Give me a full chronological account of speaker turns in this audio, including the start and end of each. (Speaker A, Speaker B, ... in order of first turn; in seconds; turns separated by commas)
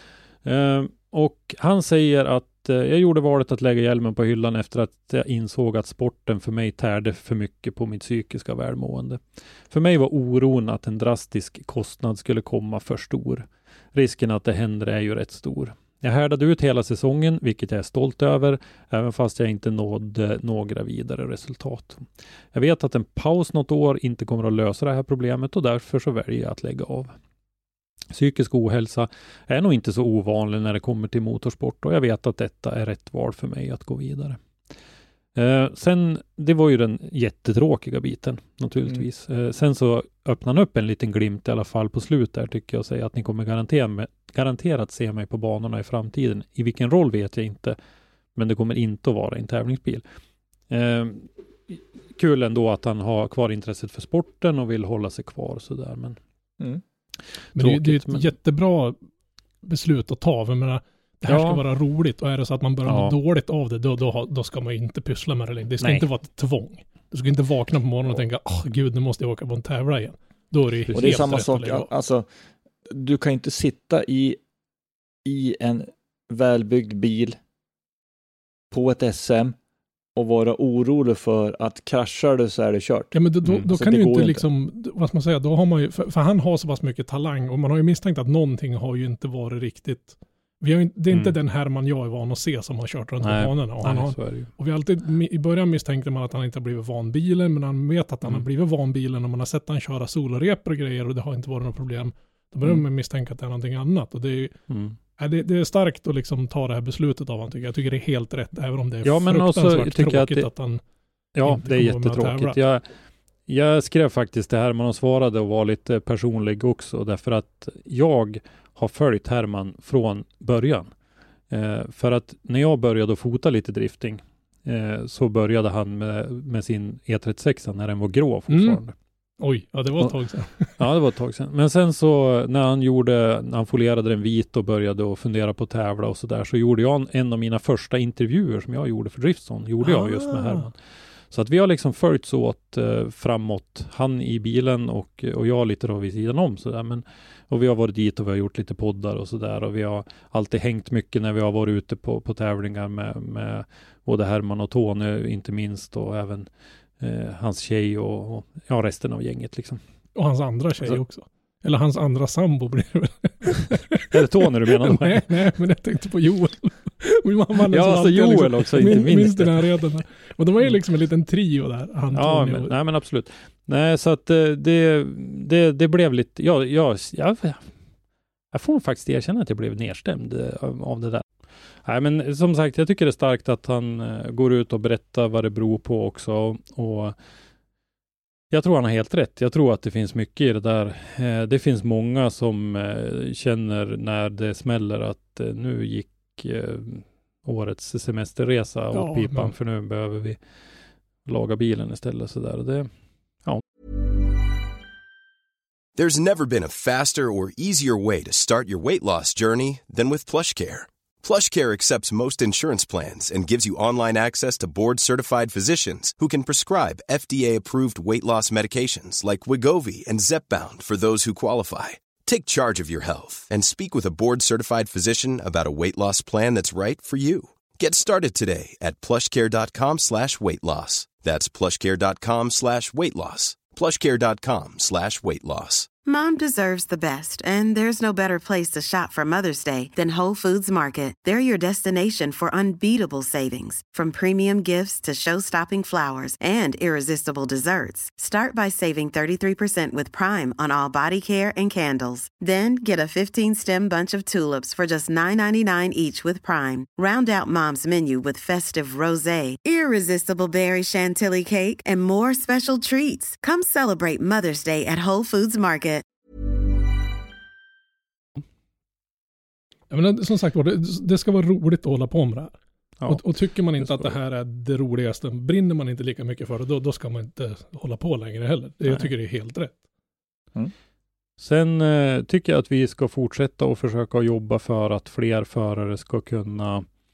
Speaker A: 0.4-27.1, Speaker A: 28.1-34.4, Speaker A: 35.3-47.8, Speaker A: 48.3-50.0, Speaker A: 50.7-56.2, Speaker A: 57.5-58.3, Speaker B: 57.5-59.0, Speaker B: 59.6-71.9, Speaker A: 61.2-61.6, Speaker A: 62.8-63.1, Speaker A: 70.9-71.3, Speaker C: 70.9-72.3, Speaker C: 72.9-74.4, Speaker C: 75.2-77.4, Speaker C: 78.7-79.6, Speaker C: 80.2-83.1, Speaker B: 83.1-104.5, Speaker C: 83.7-84.4, Speaker A: 91.1-91.3, Speaker A: 93.2-94.5, Speaker A: 104.7-105.0, Speaker B: 105.2-110.8, Speaker A: 109.0-110.5, Speaker A: 111.3-112.8, Speaker B: 111.4-112.6, Speaker A: 113.5-120.9, Speaker A: 121.5-128.9, Speaker B: 128.5-128.8, Speaker B: 129.4-130.8, Speaker A: 130.8-140.8, Speaker B: 139.8-140.7, Speaker A: 141.3-156.5, Speaker A: 157.0-159.8, Speaker B: 160.1-172.7, Speaker A: 164.1-165.3, Speaker A: 167.7-169.7, Speaker A: 172.1-177.7, Speaker A: 178.5-181.3, Speaker A: 181.8-187.2, Speaker A: 188.5-200.4, Speaker B: 198.9-199.5, Speaker A: 201.2-202.9, Speaker D: 205.9-235.9, Speaker E: 236.1-266.0, Speaker B: 269.9-272.5, Speaker A: 273.0-274.1, Speaker B: 273.1-279.8, Speaker A: 281.4-286.9